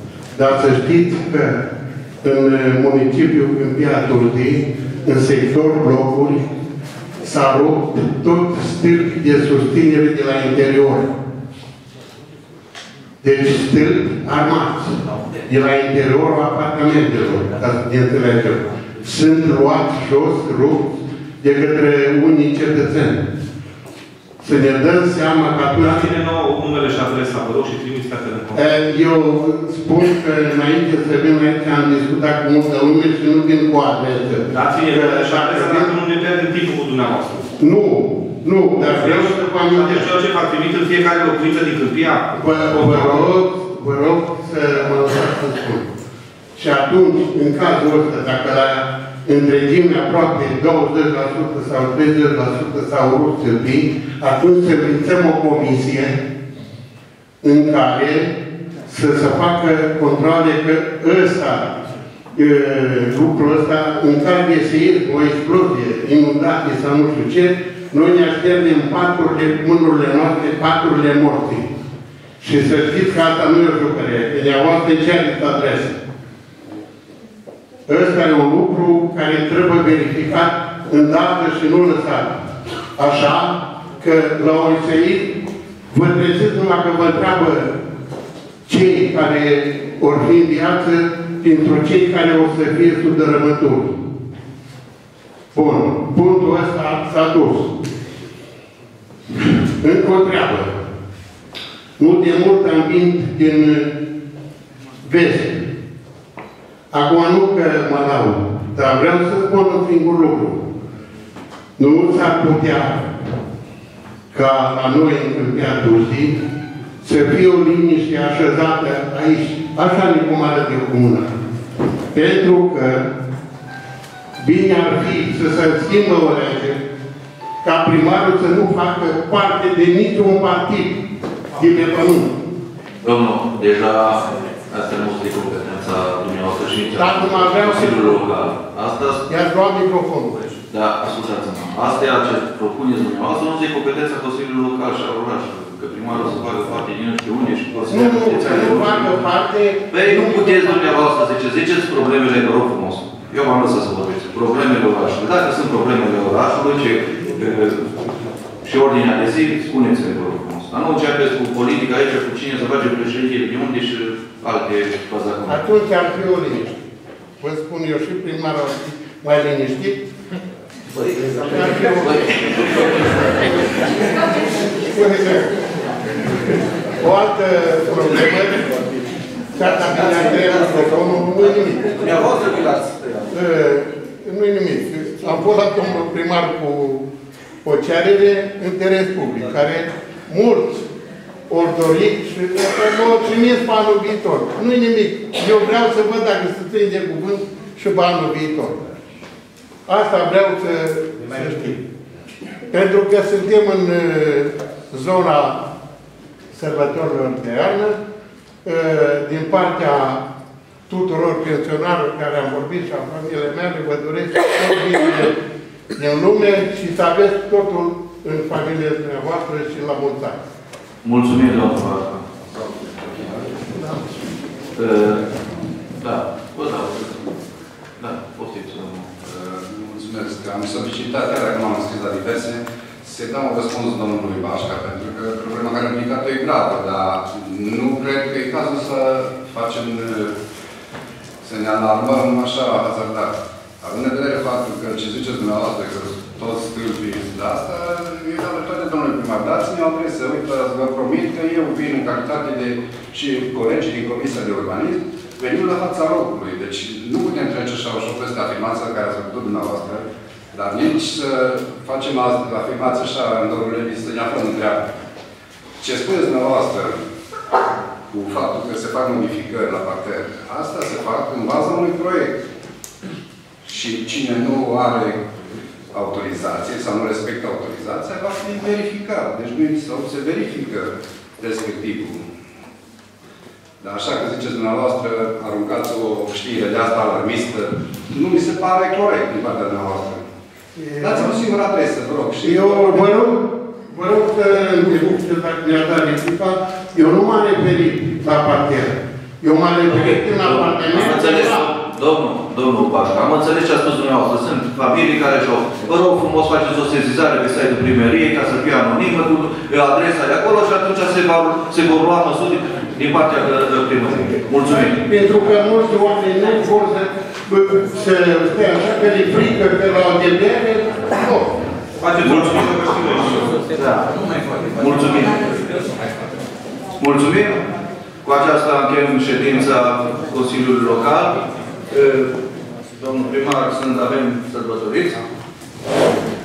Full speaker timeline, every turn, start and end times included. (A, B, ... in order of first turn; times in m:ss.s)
0:00.4-0:01.7 A
0:02.2-0:06.5 A
0:07.2-0:11.1 A
0:13.2-0:23.3 A
0:24.4-0:26.2 A
0:25.8-0:28.6 B
0:28.5-0:35.9 A
0:34.5-0:37.5 B
0:37.6-0:40.1 A
0:38.8-0:43.3 B
0:42.3-0:45.9 A
0:46.6-0:56.2 A
0:57.4-1:01.8 A
1:02.3-1:11.7 A
1:12.4-1:16.0 A
1:17.9-1:25.4 A
1:25.9-1:27.8 A
1:28.7-1:34.0 A
1:35.5-1:37.8 A
1:39.3-1:40.8 A
1:42.0-1:44.0 A
1:45.0-1:45.7 A
1:46.9-1:50.7 A
1:51.8-1:53.2 A
1:54.3-1:56.4 A
1:57.0-2:01.3 A
2:02.1-2:03.1 A
2:04.4-2:06.8 A
2:07.6-2:12.4 A
2:13.0-2:19.2 C
2:17.0-2:18.2 A
2:19.3-2:20.6 A
2:20.7-2:29.2 C
2:27.9-2:31.0 A
2:29.9-2:38.0 C
2:38.6-2:45.6 C
2:45.5-2:46.8 A
2:47.4-2:50.0 A
2:51.1-2:53.6 A
2:54.7-2:55.6 A
2:56.2-2:58.7 A
2:59.5-3:02.1 A
3:01.8-3:03.3 C
3:03.3-3:07.1 A
3:07.6-3:10.9 A
3:11.5-3:18.9 A
3:19.9-3:21.8 A
3:21.2-3:21.8 B
3:22.7-3:25.6 A
3:26.5-3:28.0 A
3:28.6-3:30.2 A
3:30.9-3:35.4 A
3:36.0-3:40.4 A
3:41.0-3:42.3 C
3:42.5-3:43.6 D
3:44.8-3:45.2 C
3:46.0-3:47.2 C
3:48.0-3:49.1 C
3:49.2-4:00.4 D
4:01.4-4:24.9 D
4:25.8-4:27.0 D
4:28.1-4:32.4 D
4:33.6-4:35.3 D
4:35.9-4:42.3 D
4:43.8-4:50.2 D
4:50.8-4:51.4 A
4:51.0-4:53.1 D
4:52.4-5:01.7 A
4:59.9-5:15.0 C
5:14.7-5:21.5 A
5:22.0-5:23.5 B
5:22.2-5:25.9 C
5:27.0-5:27.6 C
5:28.2-5:32.4 C
5:32.9-5:35.2 C